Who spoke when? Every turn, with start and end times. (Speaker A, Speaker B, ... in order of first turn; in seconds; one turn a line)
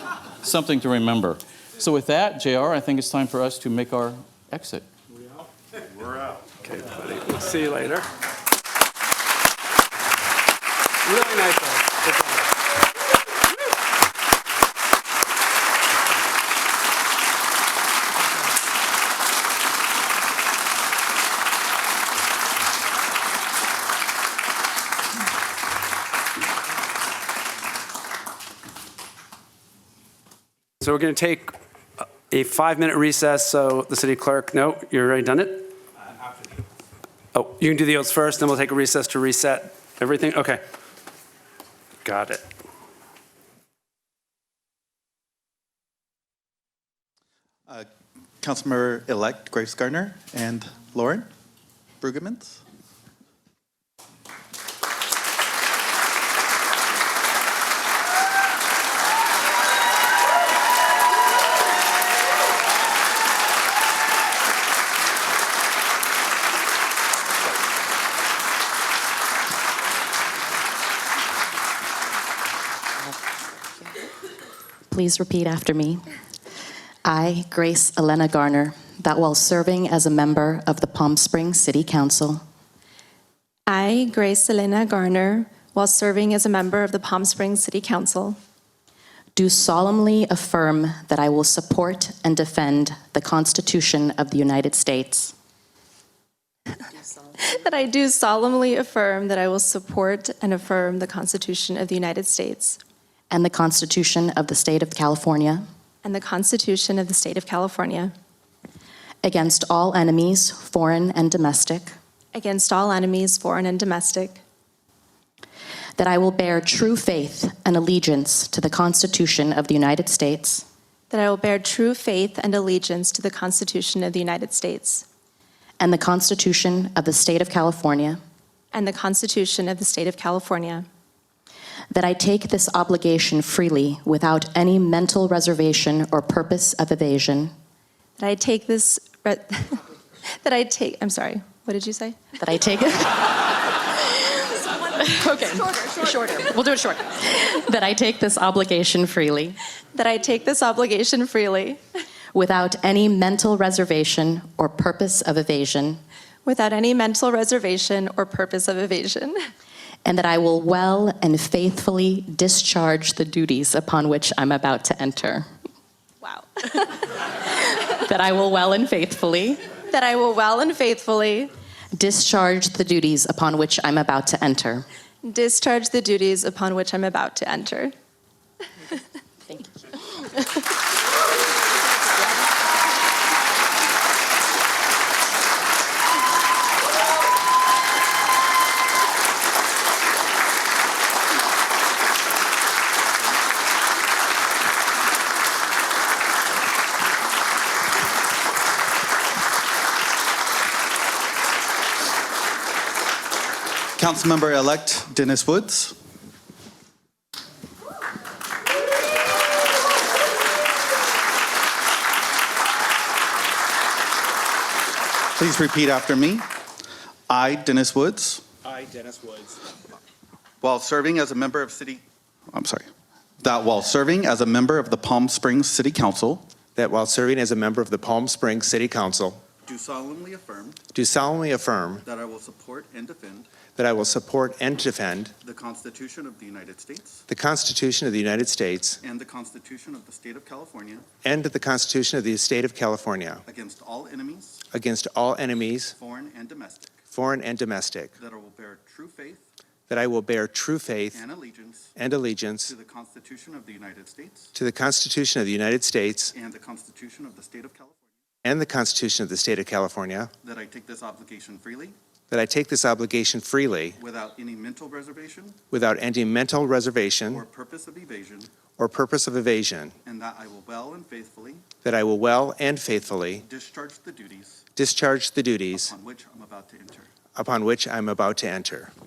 Speaker A: 0.4-4.9
Speaker B: 6.6-8.0
Speaker B: 11.1-12.4
Speaker B: 30.8-31.5
Speaker B: 32.3-35.6
Speaker B: 37.3-40.6
Speaker B: 42.0-42.4
Speaker C: 48.4-51.3
Speaker C: 52.0-52.6
Speaker D: 74.9-76.0
Speaker D: 77.0-82.4
Speaker E: 83.7-88.4
Speaker D: 89.3-95.3
Speaker E: 97.4-102.8
Speaker D: 103.3-105.6
Speaker E: 106.0-108.1
Speaker D: 109.2-111.9
Speaker E: 112.3-114.4
Speaker D: 116.0-120.6
Speaker E: 121.1-125.0
Speaker D: 125.8-128.2
Speaker E: 128.7-130.8
Speaker D: 131.9-137.5
Speaker E: 138.2-139.8
Speaker E: 140.4-142.3
Speaker D: 142.4-143.8
Speaker D: 144.9-149.6
Speaker E: 149.9-151.8
Speaker D: 152.3-156.0
Speaker E: 156.4-159.4
Speaker D: 160.0-165.4
Speaker E: 166.2-166.7
Speaker D: 167.4-169.7
Speaker E: 169.9-171.5
Speaker D: 172.0-174.8
Speaker E: 175.2-177.9
Speaker C: 204.0-205.9
Speaker C: 215.3-216.4
Speaker C: 217.3-218.4
Speaker F: 218.7-219.6
Speaker C: 220.6-222.9
Speaker C: 223.4-226.5
Speaker F: 226.8-229.4
Speaker C: 229.6-230.8
Speaker F: 230.9-232.0
Speaker C: 232.0-233.5
Speaker F: 233.8-235.3
Speaker C: 235.4-237.2
Speaker F: 237.3-239.0
Speaker C: 239.0-241.1
Speaker F: 241.2-243.4
Speaker C: 243.4-244.6
Speaker F: 244.7-245.9
Speaker C: 245.9-247.0
Speaker F: 247.1-248.1
Speaker C: 248.2-249.5
Speaker F: 249.9-251.2
Speaker C: 251.1-251.9
Speaker F: 251.9-252.7
Speaker C: 252.7-254.5
Speaker F: 254.5-256.3
Speaker C: 256.3-258.0
Speaker F: 258.4-260.3
Speaker C: 260.4-261.9
Speaker F: 262.3-264.0
Speaker C: 264.0-265.6
Speaker F: 265.7-267.4
Speaker C: 267.3-268.5
Speaker F: 268.8-269.9
Speaker C: 270.0-271.7
Speaker F: 271.8-273.4
Speaker C: 273.4-274.6
Speaker F: 274.8-275.9
Speaker C: 275.7-277.1
Speaker F: 277.4-278.9